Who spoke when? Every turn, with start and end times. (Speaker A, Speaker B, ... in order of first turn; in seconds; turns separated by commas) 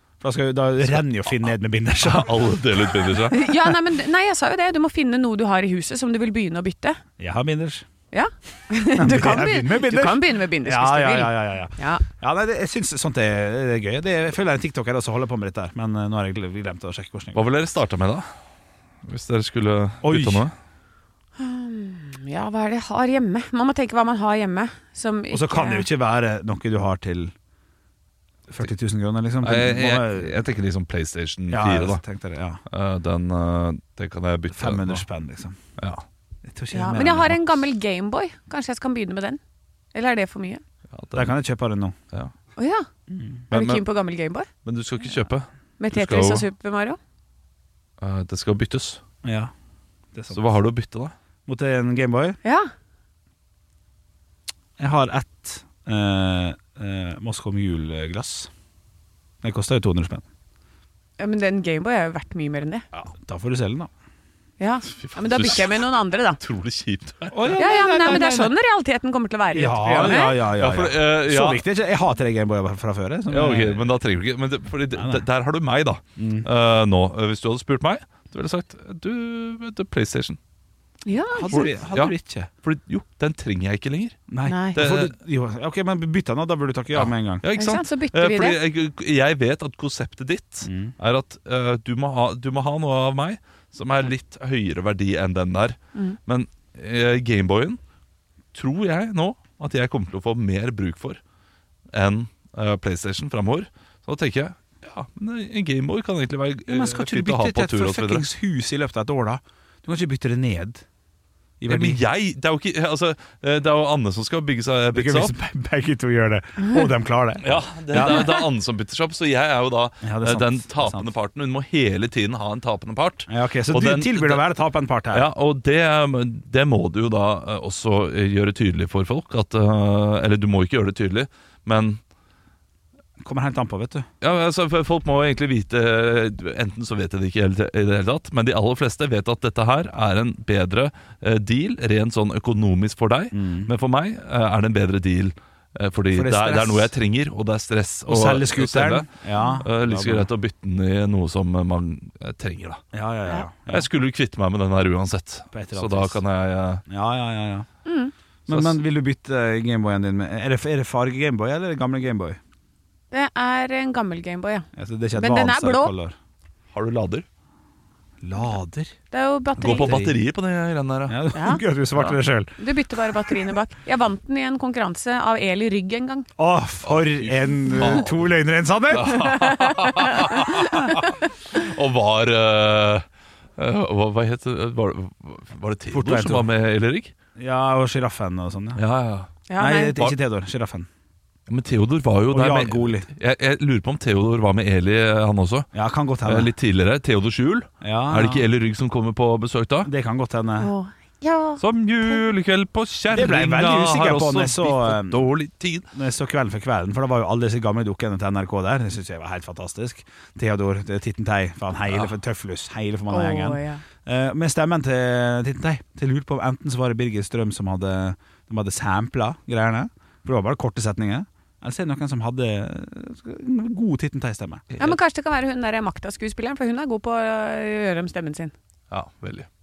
Speaker A: 0.2-2.5, Speaker B: 2.0-3.5, Speaker C: 3.3-7.0, Speaker A: 7.2-7.9, Speaker C: 8.1-12.0, Speaker A: 9.0-17.4, Speaker B: 17.3-18.3, Speaker B: 19.0-20.5, Speaker A: 20.0-20.5, Speaker C: 21.4-25.9, Speaker A: 25.3-27.3, Speaker A: 28.5-30.4, Speaker B: 29.4-32.0, Speaker A: 31.5-32.6, Speaker B: 32.7-35.0, Speaker A: 34.5-35.6, Speaker B: 35.8-36.0, Speaker A: 36.4-37.6, Speaker C: 36.7-39.4, Speaker C: 39.9-40.6, Speaker B: 40.9-41.3, Speaker A: 41.1-42.0, Speaker C: 42.6-42.9, Speaker C: 43.5-44.5, Speaker B: 43.5-43.8, Speaker B: 44.6-46.5, Speaker C: 45.8-47.0, Speaker B: 48.0-49.0, Speaker A: 49.2-49.5, Speaker A: 50.1-50.5, Speaker B: 50.3-51.1, Speaker A: 51.5-52.4, Speaker C: 52.4-52.7, Speaker A: 54.8-58.5, Speaker A: 59.4-60.2, Speaker C: 61.2-62.9, Speaker A: 63.2-63.9, Speaker C: 64.6-66.4, Speaker B: 64.9-65.8, Speaker B: 66.4-67.6, Speaker A: 67.3-68.5, Speaker C: 67.6-70.4, Speaker A: 69.5-74.0, Speaker B: 70.0-71.6, Speaker B: 73.3-80.4, Speaker A: 75.0-75.2, Speaker A: 76.2-76.5, Speaker C: 81.1-81.7, Speaker A: 81.3-82.5, Speaker B: 81.5-84.2, Speaker A: 84.3-87.5, Speaker C: 84.5-84.8, Speaker B: 84.7-85.1, Speaker B: 86.9-97.8, Speaker C: 87.5-88.6, Speaker A: 90.6-90.9, Speaker B: 98.5-101.2, Speaker B: 101.9-108.3, Speaker A: 106.7-110.8, Speaker A: 111.6-112.0, Speaker B: 111.7-115.3, Speaker A: 115.0-118.4, Speaker B: 117.4-124.5, Speaker A: 120.0-121.1, Speaker A: 123.3-125.3, Speaker B: 125.1-132.0, Speaker A: 133.2-134.1, Speaker B: 134.2-152.8, Speaker A: 143.3-143.7, Speaker A: 146.1-146.9, Speaker A: 148.1-150.3, Speaker A: 152.9-153.9, Speaker B: 153.7-156.8, Speaker A: 155.5-156.2, Speaker A: 156.9-157.7, Speaker C: 157.8-158.1, Speaker A: 158.5-162.4, Speaker B: 158.5-158.8, Speaker C: 163.1-165.9, Speaker A: 164.8-166.2, Speaker B: 166.7-167.3, Speaker A: 168.2-168.9, Speaker C: 169.1-169.9, Speaker B: 169.6-171.2, Speaker A: 169.7-170.2, Speaker A: 171.1-172.6, Speaker C: 171.3-171.6, Speaker C: 172.6-176.3, Speaker A: 176.4-179.5, Speaker B: 176.9-178.2, Speaker B: 178.9-183.1, Speaker C: 179.3-180.9, Speaker B: 183.6-187.1, Speaker A: 185.9-186.5, Speaker A: 187.4-188.8, Speaker B: 188.8-189.3, Speaker C: 189.5-190.0, Speaker A: 189.6-190.9, Speaker B: 191.5-195.7, Speaker A: 192.3-193.1, Speaker A: 195.7-196.5, Speaker B: 196.2-199.9, Speaker A: 197.8-198.4, Speaker A: 199.8-200.7, Speaker C: 200.6-201.6, Speaker B: 201.6-205.9, Speaker A: 203.1-205.2, Speaker A: 205.9-224.7, Speaker C: 213.1-213.8, Speaker C: 224.8-228.5, Speaker B: 228.9-229.5